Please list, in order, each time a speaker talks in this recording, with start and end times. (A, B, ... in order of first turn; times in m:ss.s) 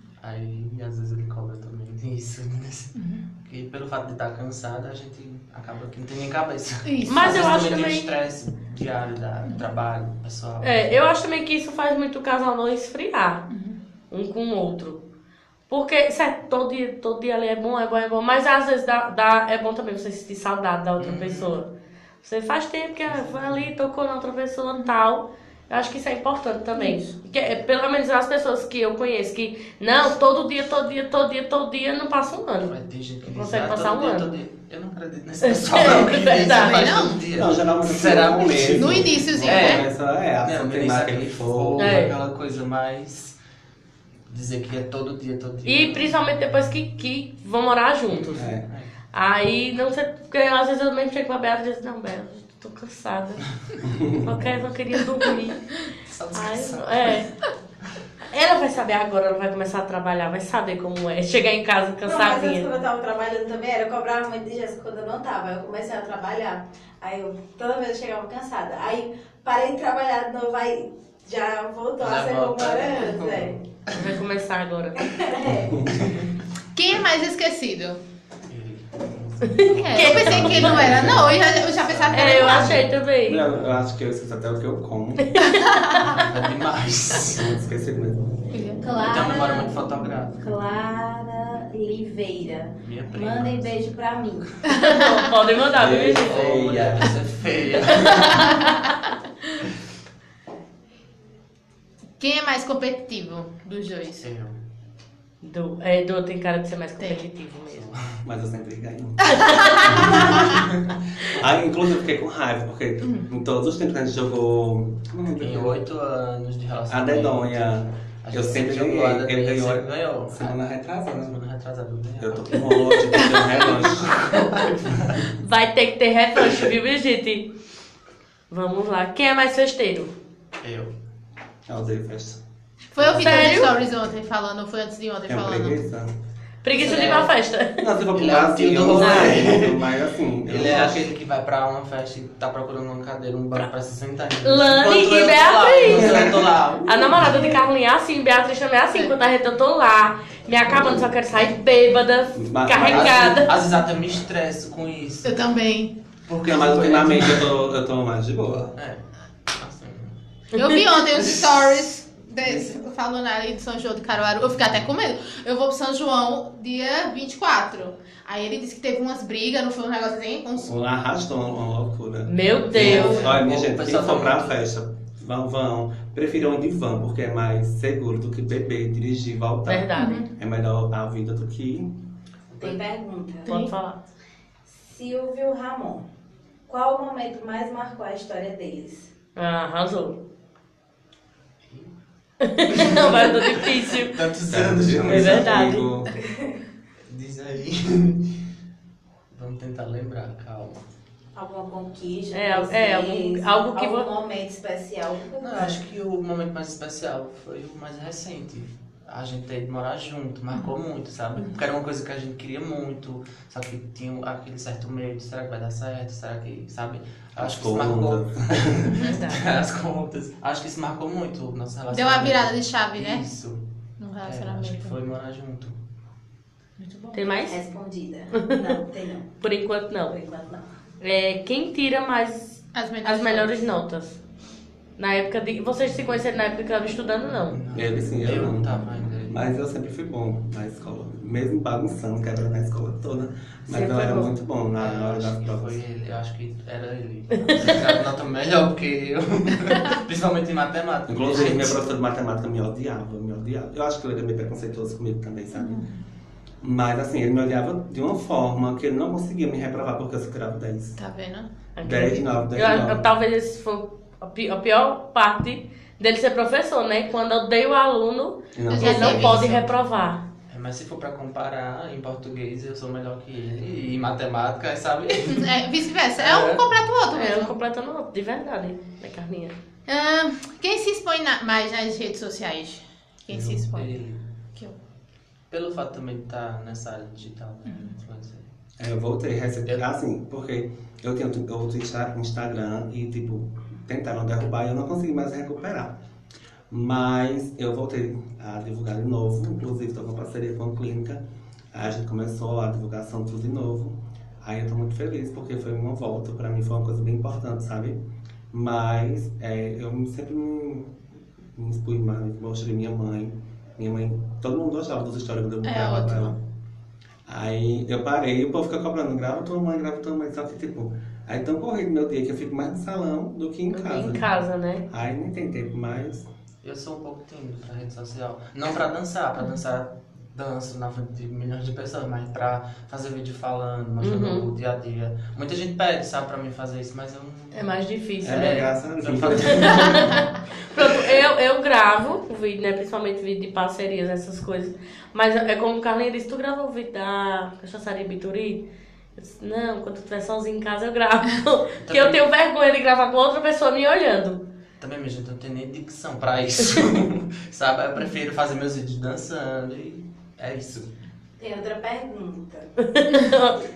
0:00.2-0:11.0 A
0:03.0-0:03.2 B
0:06.8-0:07.4 B
0:07.0-0:08.1 C
0:10.6-0:13.5 C
0:13.5-0:13.8 B
0:14.1-0:15.0 C
0:15.7-0:21.7 C
0:21.0-0:21.6 A
0:22.2-0:32.7 C
0:23.1-0:23.7 A
0:26.8-0:27.1 B
0:32.6-0:39.9 A
0:33.2-0:34.3 C
0:35.4-0:36.9 C
0:36.5-0:37.2 B
0:37.3-0:42.0 D
0:38.7-0:39.8 B
0:40.4-0:43.4 A
0:41.8-0:42.1 C
0:44.3-0:46.1 A
0:45.6-0:48.5 C
0:48.3-0:48.6 D
0:48.6-0:48.9 A
0:49.1-0:53.5 C
0:53.8-0:54.4 D
0:54.0-0:55.7 C
0:56.1-0:57.2 A
0:56.3-0:57.3 C
0:58.2-1:02.7 C
1:02.0-1:13.6 E
1:12.0-1:14.1 A
1:13.9-1:15.1 C
1:15.0-1:15.9 E
1:15.7-1:15.9 D
1:15.9-1:16.3 A
1:16.7-1:18.0 B
1:18.5-1:22.8 A
1:19.4-1:21.0 C
1:19.7-1:22.9 B
1:20.1-1:21.4 D
1:22.1-1:23.4 C
1:22.4-1:25.3 D
1:25.3-1:26.0 C
1:25.5-1:26.1 B
1:26.1-1:27.6 A
1:27.3-1:28.3 D
1:28.5-1:28.8 B
1:28.8-1:29.8 E
1:29.0-1:30.4 A
1:30.4-1:34.6 E
1:32.8-1:33.8 A
1:34.7-1:35.2 B
1:34.7-1:36.4 C
1:35.7-1:37.2 D
1:36.2-1:38.6 A
1:37.8-1:38.9 C
1:38.1-1:38.8 B
1:42.2-1:44.2 B
1:44.2-1:44.6 A
1:45.4-1:48.0 C
1:47.7-1:48.2 A
1:48.2-1:50.3 D
1:49.3-1:50.3 C
1:49.7-1:50.4 B
1:51.3-1:55.8 D
1:53.0-1:53.3 B
1:55.4-1:57.7 A
1:56.9-2:01.4 D
1:58.2-2:00.6 A
2:01.1-2:05.2 A
2:02.2-2:04.4 D
2:03.2-2:03.5 B
2:05.4-2:07.5 C
2:08.5-2:10.1 C
2:10.6-2:10.9 A
2:11.7-2:12.4 D
2:12.9-2:15.8 B
2:13.0-2:13.4 D
2:13.2-2:13.7 C
2:15.3-2:16.1 D
2:16.6-2:17.8 C
2:16.7-2:17.3 A
2:17.8-2:21.1 D
2:18.1-2:19.9 A
2:19.0-2:19.4 C
2:20.4-2:27.5 A
2:24.4-2:26.3 C
2:25.9-2:26.5 D
2:26.8-2:33.5 C
2:32.3-2:33.5 D
2:32.8-2:35.4 A
2:35.2-2:35.9 B
2:36.3-2:37.5 A
2:36.4-2:38.7 D
2:38.5-2:40.2 A
2:40.5-2:40.8 C
2:40.5-2:50.7 B
2:41.2-2:41.7 A
2:42.4-2:42.8 A
2:44.5-2:44.9 A
2:50.6-3:01.9 D
2:52.3-2:53.3 C
2:52.7-2:54.6 A
2:52.9-2:53.2 E
2:59.6-3:00.2 C
3:00.0-3:00.3 B
3:02.5-3:02.8 A
3:02.6-3:03.7 E
3:03.4-3:04.0 C
3:04.7-3:06.0 E
3:06.7-3:09.1 E
3:09.4-3:10.2 C
3:12.4-3:14.2 C
3:12.7-3:15.6 A
3:14.5-3:16.1 D
3:15.1-3:15.9 C
3:16.1-3:16.6 E
3:17.1-3:18.4 A
3:19.3-3:20.8 A
3:21.3-3:25.8 E
3:22.3-3:24.1 C
3:25.4-3:43.6 A
3:37.4-3:39.0 D
3:38.9-3:39.4 B
3:41.9-3:43.2 B
3:44.0-3:45.0 B
3:44.2-3:45.8 A
3:46.8-3:47.3 B
3:47.1-3:47.6 C
3:47.4-3:49.3 E
3:48.3-3:48.8 C
3:49.4-3:50.2 C
3:50.0-3:50.6 E
3:51.0-3:54.2 C
3:52.7-3:53.6 B
3:55.0-3:57.6 C
3:57.5-3:59.5 A
3:57.7-4:05.8 D
4:03.7-4:04.3 C
4:04.8-4:11.8 A
4:11.1-4:15.8 D
4:15.5-4:15.9 B
4:16.6-4:21.0 D
4:21.0-4:21.5 B
4:21.8-4:30.2 C
4:21.8-4:23.0 D
4:28.5-4:29.4 D
4:28.7-4:29.6 B
4:30.5-4:35.5 A
4:35.3-4:37.5 B
4:36.2-4:36.6 A
4:37.1-4:39.6 C
4:39.9-4:43.9 B
4:43.3-4:44.2 A
4:45.5-4:48.5 A
4:47.7-4:47.9 B
4:48.8-4:56.0 D
4:56.7-5:08.0 D
5:08.5-5:11.0 D
5:11.5-5:16.4 D
5:15.6-5:16.4 B
5:17.3-5:24.3 D
5:23.7-5:24.9 C
5:24.9-5:26.2 D
5:26.6-5:40.2 A
5:34.0-5:34.4 C
5:37.5-5:38.6 C
5:38.2-5:40.2 D
5:39.4-5:48.6 C
5:49.2-5:54.4 C
5:51.8-5:52.2 A
5:54.8-6:00.9 A
6:01.4-6:02.7 E
6:02.8-6:03.6 C